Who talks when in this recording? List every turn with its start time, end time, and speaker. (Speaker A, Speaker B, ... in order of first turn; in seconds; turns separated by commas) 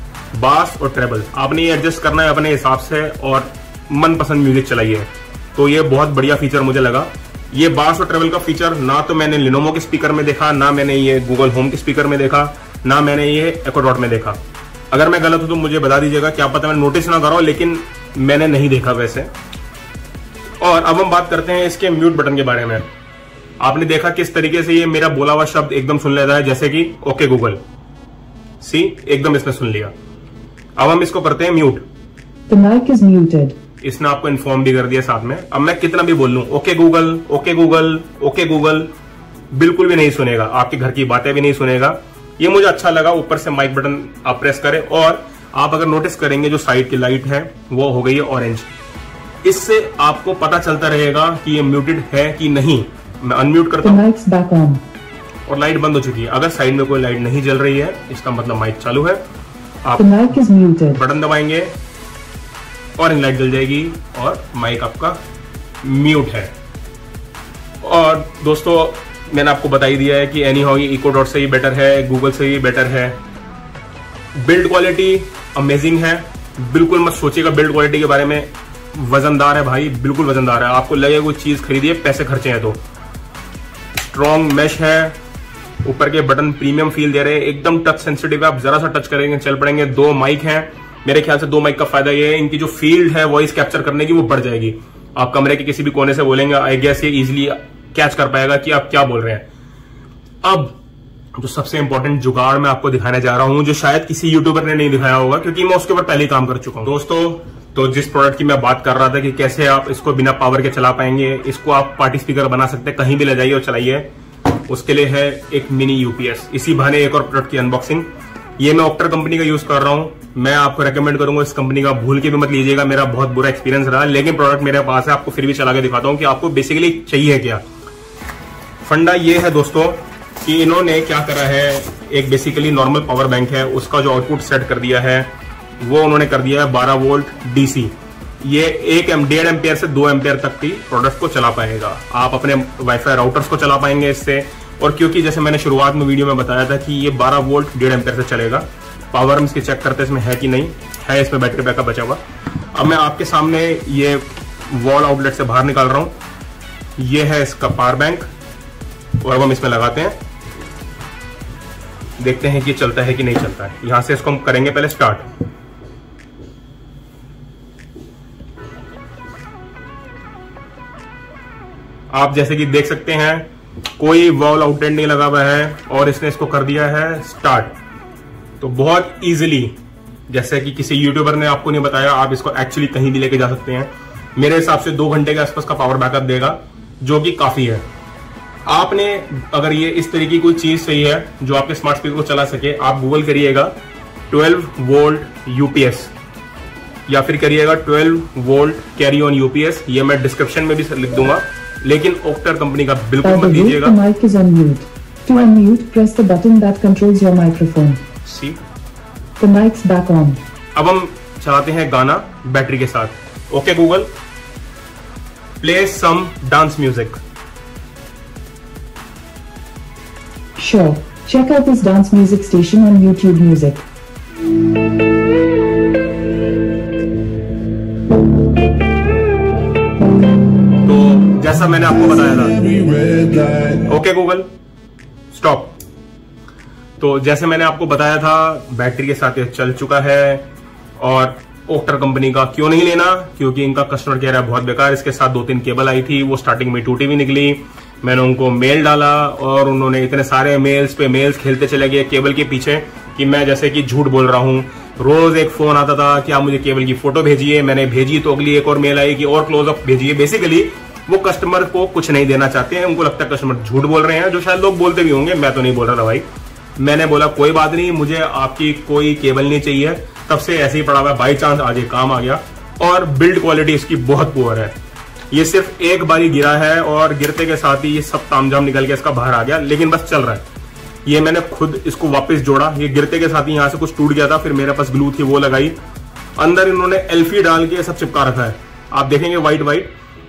Speaker A: 0.3-14.4, Speaker A: 14.9-19.3, Speaker A: 20.6-22.9, Speaker A: 23.6-27.6, Speaker A: 28.6-29.9, Speaker A: 30.8-31.8, Speaker B: 32.5-33.5, Speaker A: 33.8-38.9, Speaker A: 39.5-48.7, Speaker A: 49.4-54.0, Speaker B: 53.8-54.8, Speaker A: 55.5-59.2, Speaker B: 60.0-61.0, Speaker A: 60.9-61.7, Speaker A: 63.0-65.2, Speaker A: 65.8-66.5, Speaker A: 67.8-73.2, Speaker A: 74.3-82.8, Speaker A: 84.0-85.2, Speaker A: 85.8-99.5, Speaker A: 100.4-100.7, Speaker A: 101.3-114.1, Speaker A: 114.7-127.6, Speaker A: 128.8-152.2, Speaker A: 152.7-156.1, Speaker A: 157.0-158.3, Speaker A: 159.2-160.2, Speaker A: 162.2-165.2, Speaker A: 172.1-177.7, Speaker A: 178.6-179.7, Speaker A: 180.3-187.8, Speaker A: 188.7-193.7, Speaker A: 194.3-196.1, Speaker A: 197.1-203.9, Speaker B: 203.2-208.0, Speaker A: 208.2-208.6, Speaker B: 209.4-210.4, Speaker A: 210.8-214.1, Speaker A: 215.6-217.2, Speaker B: 220.6-223.8, Speaker A: 230.8-234.5, Speaker A: 235.3-235.7, Speaker A: 237.0-240.5, Speaker A: 241.0-266.2, Speaker A: 266.8-274.7, Speaker A: 275.3-280.4, Speaker A: 281.0-285.8, Speaker A: 286.4-289.9